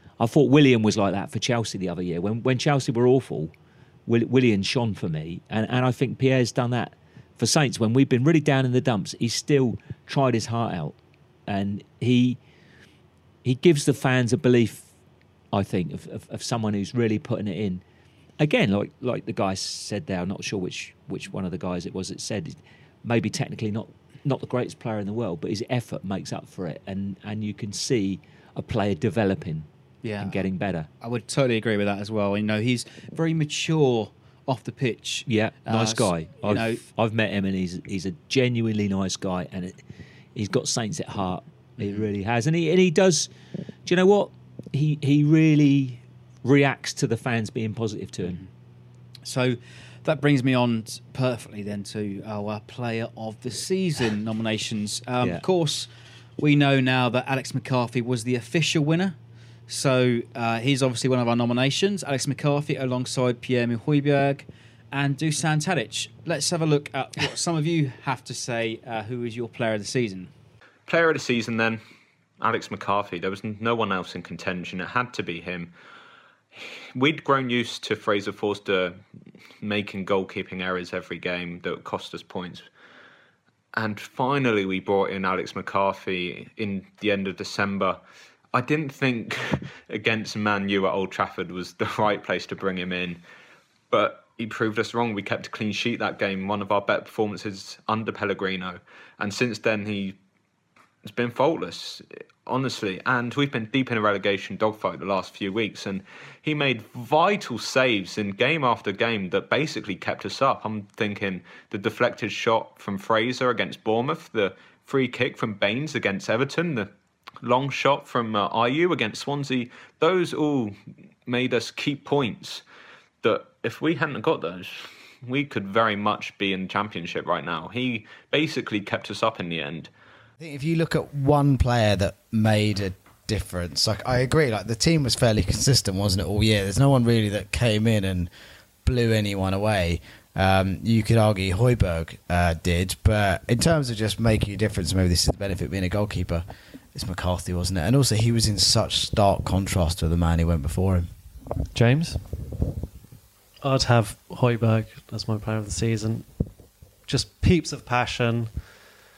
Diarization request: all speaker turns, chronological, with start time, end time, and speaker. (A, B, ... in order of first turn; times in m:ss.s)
0:00.2-0:03.5 A
0:04.1-0:11.0 A
0:11.5-0:12.4 A
0:13.4-0:14.9 A
0:15.5-0:17.8 A
0:18.4-0:29.7 A
0:30.0-0:30.4 B
0:30.2-0:30.9 A
0:31.0-0:36.8 B
0:35.3-0:39.8 A
0:40.3-0:43.3 A
0:41.8-0:42.0 B
0:43.8-0:48.4 A
0:48.2-0:48.5 B
0:49.2-0:59.2 B
0:59.7-1:10.3 B
1:10.9-1:11.8 C
1:12.4-1:15.7 C
1:16.5-1:19.0 C
1:19.6-1:22.7 C
1:23.7-1:28.0 C
1:28.5-1:33.2 C
1:33.9-1:40.2 C
1:41.0-1:56.9 C
1:57.4-2:02.6 C
2:03.2-2:09.9 C
2:10.4-2:18.3 D
2:18.8-2:31.1 D
2:31.7-2:32.4 E
2:33.6-2:38.9 E